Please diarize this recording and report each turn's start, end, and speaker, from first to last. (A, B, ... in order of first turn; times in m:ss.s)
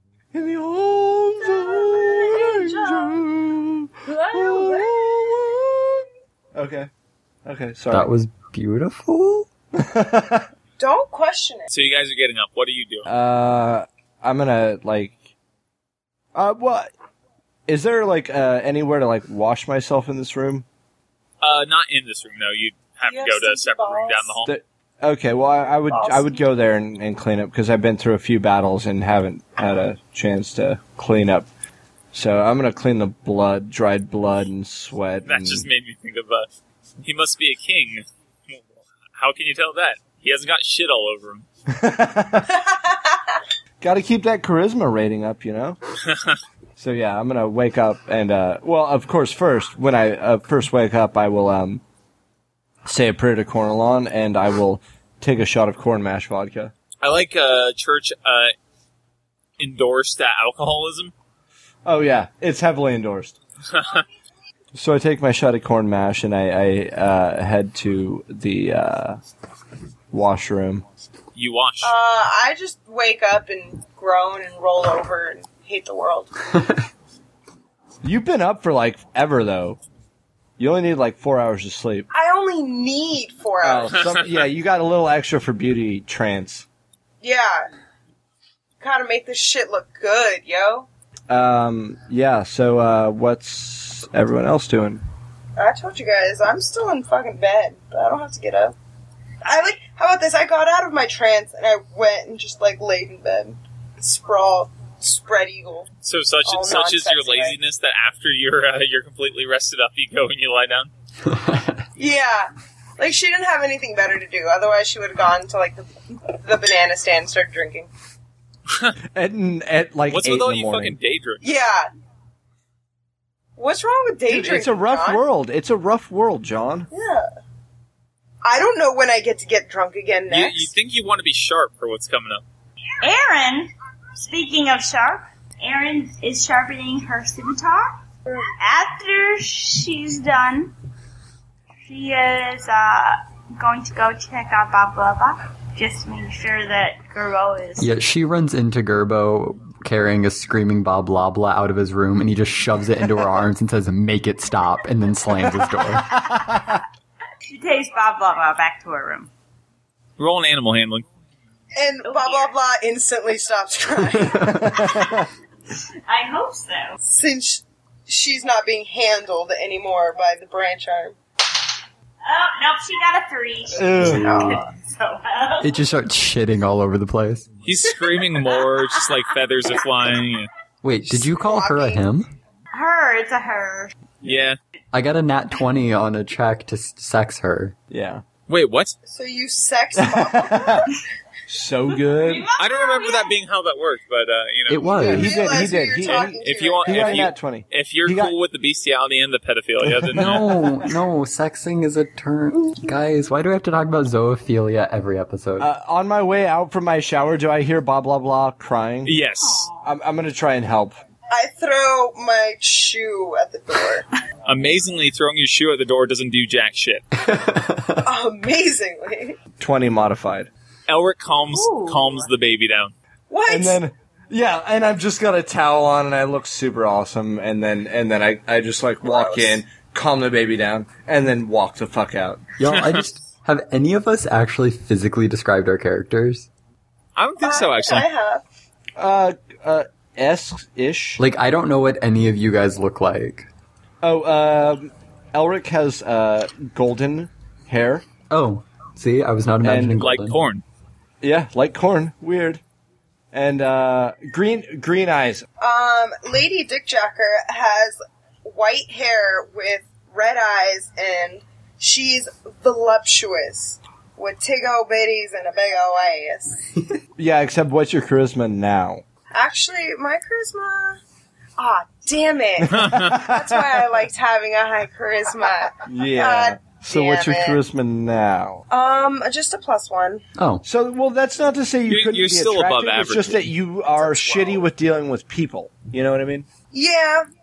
0:00.3-0:06.9 A
0:01.4-0:03.2 B
0:04.0-0:04.9 B
0:07.4-0:08.1 A
0:07.9-0:09.5 C
0:09.7-0:10.5 A
0:10.8-0:11.7 B
0:11.7-0:13.1 D
0:13.0-0:15.2 A
0:16.3-0:16.9 A
0:17.7-0:20.7 A
0:21.4-0:24.5 D
0:23.0-0:24.4 B
0:24.4-0:31.5 A
0:25.9-0:26.4 B
0:32.1-0:35.7 A
0:35.3-0:36.5 D
0:37.0-0:38.6 D
0:39.2-0:41.4 D
0:41.7-0:42.5 A
0:42.5-0:43.4 B
0:43.8-0:45.8 A
0:46.1-0:46.4 D
0:46.8-0:51.8 A
0:52.8-0:56.7 A
0:57.0-0:58.5 D
0:59.6-1:01.1 D
1:01.8-1:03.4 A
1:03.7-1:04.0 D
1:04.7-1:09.2 A
1:10.1-1:10.8 A
1:11.3-1:12.0 D
1:11.8-1:16.5 B
1:18.0-1:19.8 A
1:20.6-1:22.1 A
1:22.1-1:24.2 B
1:23.6-1:26.7 A
1:27.2-1:27.7 B
1:28.8-1:30.9 B
1:31.3-1:35.0 A
1:35.6-1:38.7 B
1:39.4-1:45.9 B
1:46.0-1:50.9 D
1:46.4-1:47.6 B
1:51.2-1:51.9 C
1:52.0-1:57.9 B
1:58.7-1:59.0 D
1:59.1-2:01.0 A
2:00.1-2:01.4 D
2:01.4-2:01.9 B
2:03.6-2:05.2 B
2:04.3-2:06.9 A
2:06.9-2:07.3 B
2:08.4-2:10.7 B
2:10.3-2:12.4 D
2:13.0-2:18.0 E
2:18.6-2:20.8 E
2:21.8-2:27.9 E
2:27.8-2:36.3 C
2:37.5-2:39.3 E
2:40.2-2:41.0 D
2:41.8-2:45.0 B
2:42.0-2:42.5 E
2:44.4-2:45.3 A
2:46.0-2:47.0 E
2:47.0-2:51.2 B
2:52.2-2:55.8 E
2:53.8-2:54.3 A
2:54.0-2:54.6 B
2:55.6-2:57.5 C
2:57.6-3:00.5 D
3:00.8-3:02.3 C
3:01.1-3:02.0 B
3:02.7-3:03.9 E
3:04.2-3:04.6 D
3:04.9-3:07.8 C
3:07.9-3:08.2 A
3:08.5-3:09.0 D
3:09.0-3:11.0 B
3:10.0-3:10.9 A
3:11.5-3:12.5 A
3:12.1-3:13.3 E
3:12.6-3:15.0 D
3:14.7-3:15.3 C
3:14.8-3:17.3 B
3:15.0-3:18.3 A
3:16.1-3:20.6 D
3:20.0-3:20.3 A
3:20.2-3:25.7 C
3:25.6-3:29.1 A
3:29.0-3:29.7 D
3:29.4-3:29.9 E
3:29.8-3:31.0 A
3:31.3-3:34.0 B
3:34.4-3:37.0 D
3:37.1-3:38.0 C
3:38.0-3:39.4 B
3:39.6-3:40.5 A
3:40.9-3:42.9 D
3:41.5-3:42.3 E
3:43.3-3:43.8 B
3:43.5-3:52.4 A
3:49.0-3:49.6 B
3:52.6-3:56.5 C
3:52.7-3:53.0 D
3:57.2-3:58.1 D
3:57.4-3:58.4 B
3:59.0-4:01.2 A
4:01.2-4:03.5 C
4:04.0-4:08.0 A
4:08.3-4:10.4 C
4:09.6-4:10.0 A
4:10.0-4:10.6 D
4:11.2-4:12.6 A
4:13.3-4:15.4 A
4:15.6-4:26.7 B
4:27.2-4:29.0 A
4:29.3-4:31.0 B
4:31.6-4:37.6 B
4:32.6-4:33.7 A
4:32.7-4:33.1 D
4:35.9-4:38.6 A
4:38.7-4:40.2 B
4:40.4-4:40.6 C
4:40.6-4:46.4 A
4:41.9-4:44.6 D
4:46.7-4:47.3 B